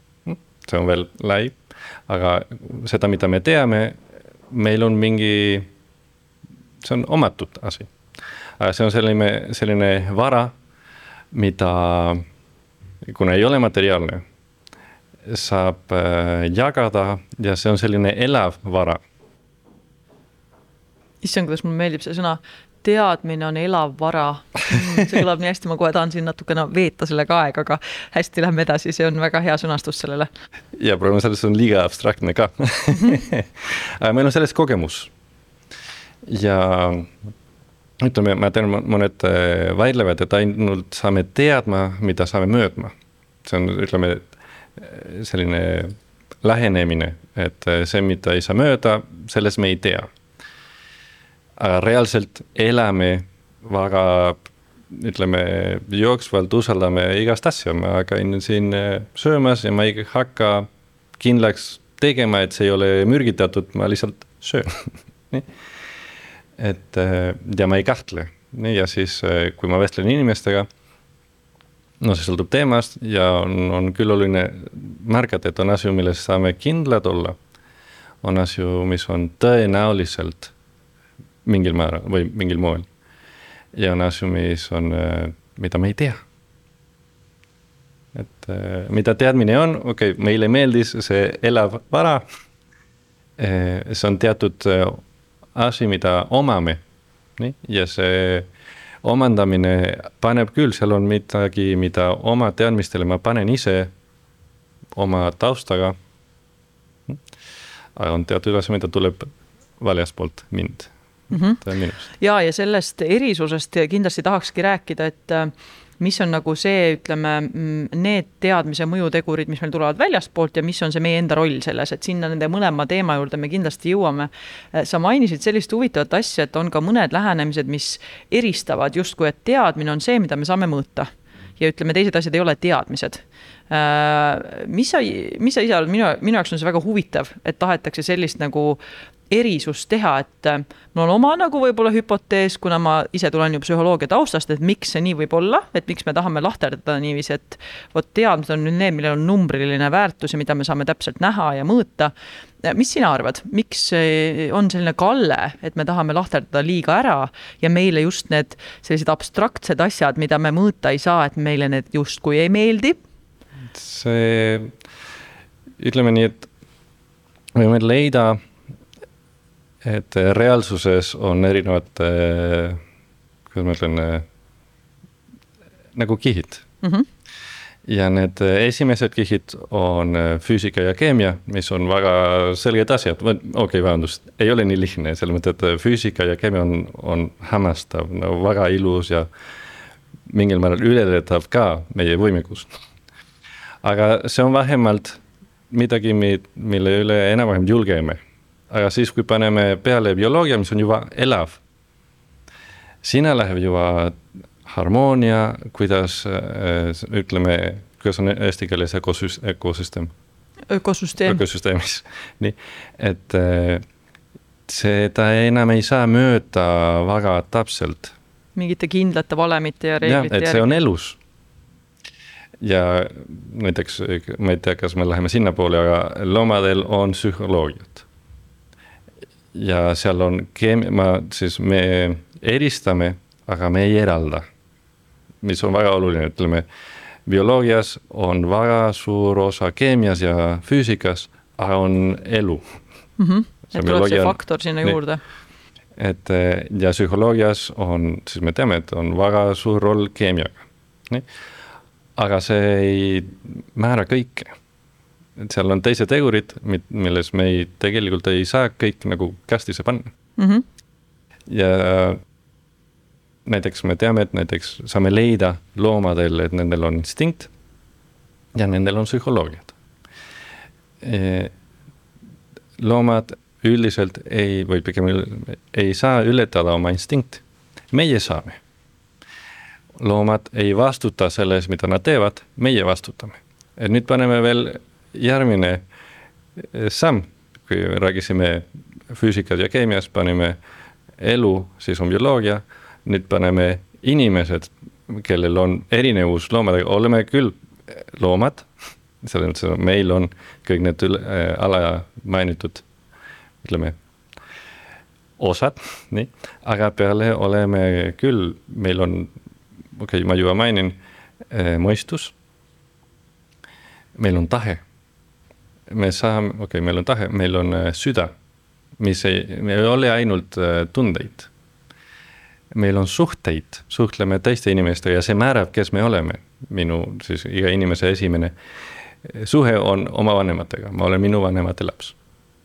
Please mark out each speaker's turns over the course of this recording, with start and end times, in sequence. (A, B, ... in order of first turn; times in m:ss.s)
0:00.2-0:04.0 A
0:04.5-0:05.7 A
0:06.8-0:07.9 A
0:08.6-0:10.5 A
0:11.3-0:12.2 A
0:13.0-0:14.2 A
0:15.3-0:19.0 A
0:21.2-0:30.3 B
0:30.8-0:35.1 A
0:36.2-0:37.1 A
0:38.0-0:42.9 A
0:43.4-0:50.1 A
0:51.6-1:00.7 A
1:01.2-1:05.5 A
1:06.6-1:10.7 A
1:12.0-1:17.4 A
1:18.2-1:20.5 A
1:21.4-1:22.8 A
1:23.7-1:26.2 A
1:28.1-1:32.2 A
1:33.4-1:35.0 A
1:35.5-1:36.8 A
1:37.4-1:38.5 A
1:39.0-1:43.9 A
1:45.0-1:46.0 A
1:48.0-1:50.9 A
1:51.3-1:51.6 B
1:51.6-1:52.1 A
1:52.2-2:18.8 B
2:19.3-2:32.1 B
2:32.6-2:43.0 B
2:43.7-2:44.7 A
2:45.8-2:46.5 A
2:47.5-2:48.4 A
2:49.8-2:52.8 A
2:53.5-2:54.2 A
2:55.9-2:56.6 A
2:57.9-3:09.3 A
3:10.3-3:12.7 A
3:13.8-3:21.6 A
3:23.0-3:30.1 A
3:30.7-3:31.4 B
3:31.2-3:33.8 A
3:34.7-3:38.1 A
3:38.6-3:40.7 B
3:40.0-3:41.2 A
3:42.6-3:48.0 A
3:49.5-3:54.4 A
3:55.4-3:56.6 A
3:57.2-4:02.6 A
4:03.2-4:05.2 B
4:03.7-4:04.9 A
4:06.0-4:11.2 A
4:12.2-4:14.5 A
4:15.4-4:20.1 A
4:20.4-4:20.6 B
4:21.5-4:22.2 A
4:23.4-4:27.5 A
4:28.6-4:29.7 A
4:31.0-4:31.5 A
4:32.8-4:38.6 A
4:40.0-4:45.8 A
4:46.6-4:50.6 A
4:51.2-4:58.7 A
4:59.2-5:02.8 A
5:03.6-5:03.9 A
5:05.4-5:09.3 A
5:10.0-5:11.0 A
5:11.5-5:12.3 A
5:14.2-5:14.8 A
5:15.9-5:18.3 A
5:19.0-5:21.5 A
5:22.7-5:28.5 A
5:29.2-5:32.1 A